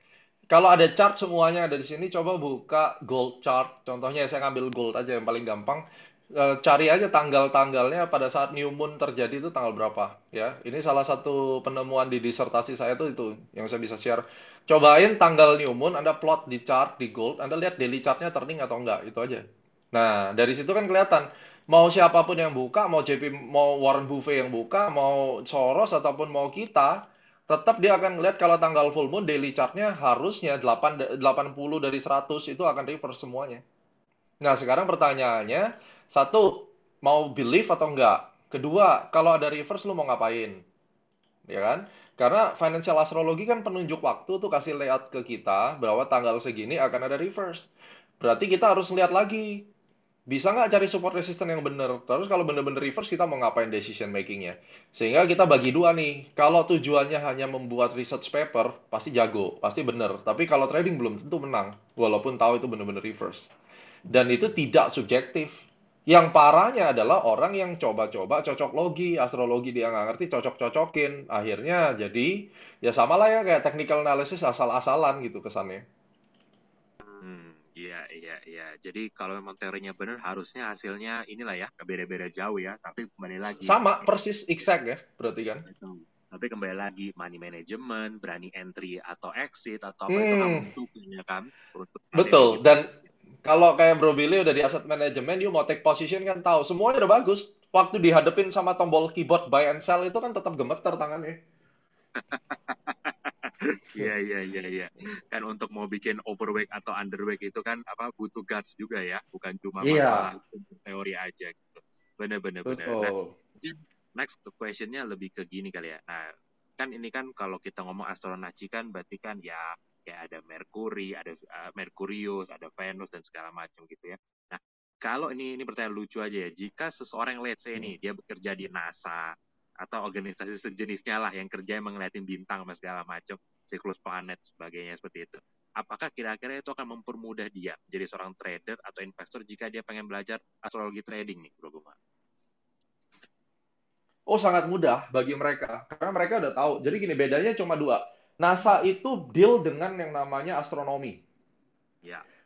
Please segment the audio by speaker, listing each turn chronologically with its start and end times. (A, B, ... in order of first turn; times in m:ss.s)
0:00.5-0:05.8 A
0:06.4-0:26.9 A
0:27.5-0:33.6 A
0:34.4-0:40.6 A
0:41.5-0:47.7 A
0:48.2-0:49.6 A
0:50.3-1:03.5 A
1:04.1-1:05.5 A
1:06.1-1:15.8 A
1:17.2-1:24.1 B
1:23.5-1:25.6 A
1:25.6-1:32.6 B
1:30.1-1:30.6 A
1:32.2-1:32.9 A
1:33.4-1:41.4 A
1:42.3-1:56.2 B
1:49.8-1:50.3 A
1:52.7-1:53.3 A
1:56.8-2:22.0 B
2:24.3-2:31.2 A